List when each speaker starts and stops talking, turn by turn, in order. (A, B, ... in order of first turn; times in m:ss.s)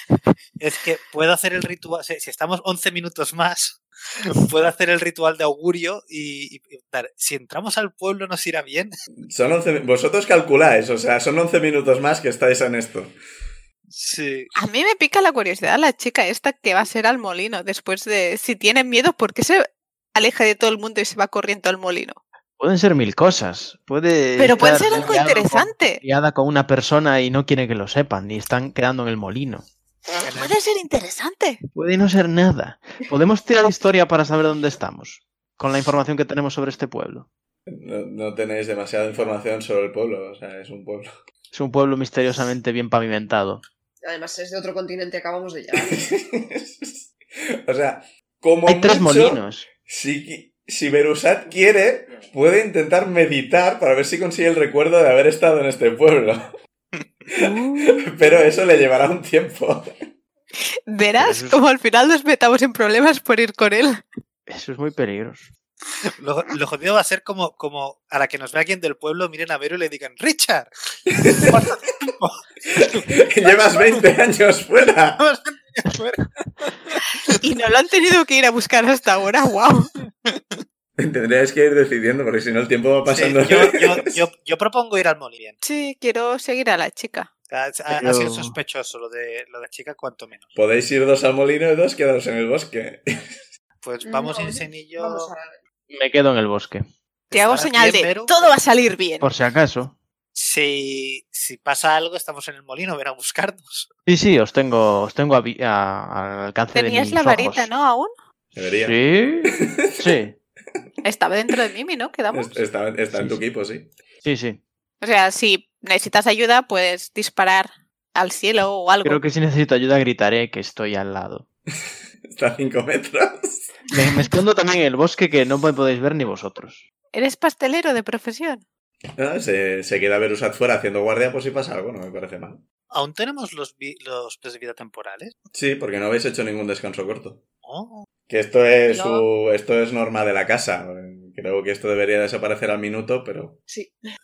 0:00.6-0:08.9 A
0:09.3-0:13.1 B
0:13.9-0:14.5 A
0:14.6-0:22.2 C
0:22.6-0:29.7 D
0:24.4-0:26.0 C
0:30.2-0:30.5 A
0:30.2-0:31.6 C
0:31.7-0:37.3 D
0:37.7-0:41.1 B
0:41.5-0:43.6 D
0:44.0-0:46.1 E
0:45.7-0:56.5 B
0:48.7-0:49.7 D
0:57.3-0:59.9 B
1:00.9-1:04.0 C
1:01.2-1:01.6 D
1:04.5-1:05.5 D
1:06.2-1:10.7 A
1:11.2-1:11.6 B
1:11.2-1:14.0 A
1:12.8-1:15.2 B
1:15.2-1:17.1 A
1:17.4-1:19.9 C
1:20.3-1:20.6 A
1:21.0-1:24.1 B
1:23.1-1:25.6 A
1:25.6-1:27.3 C
1:27.5-1:30.6 A
1:27.9-1:28.6 D
1:30.6-1:33.4 B
1:33.8-1:35.3 A
1:34.0-1:35.6 E
1:35.9-1:36.8 D
1:37.3-1:38.3 A
1:37.3-1:39.3 C
1:39.2-1:40.0 D
1:40.3-1:43.9 A
1:44.0-1:47.7 D
1:46.7-1:48.1 C
1:48.6-1:49.0 B
1:48.8-1:50.4 D
1:49.5-1:50.2 B
1:51.0-1:52.6 C
1:52.3-1:53.9 B
1:53.1-1:53.4 D
1:54.2-1:54.6 D
1:55.0-1:59.2 C
1:59.0-2:01.4 D
2:02.3-2:03.7 B
2:03.9-2:06.8 D
2:07.1-2:08.6 C
2:09.2-2:12.6 B
2:12.9-2:15.3 A
2:15.5-2:17.4 B
2:17.6-2:18.1 A
2:18.3-2:23.6 B
2:18.9-2:19.2 C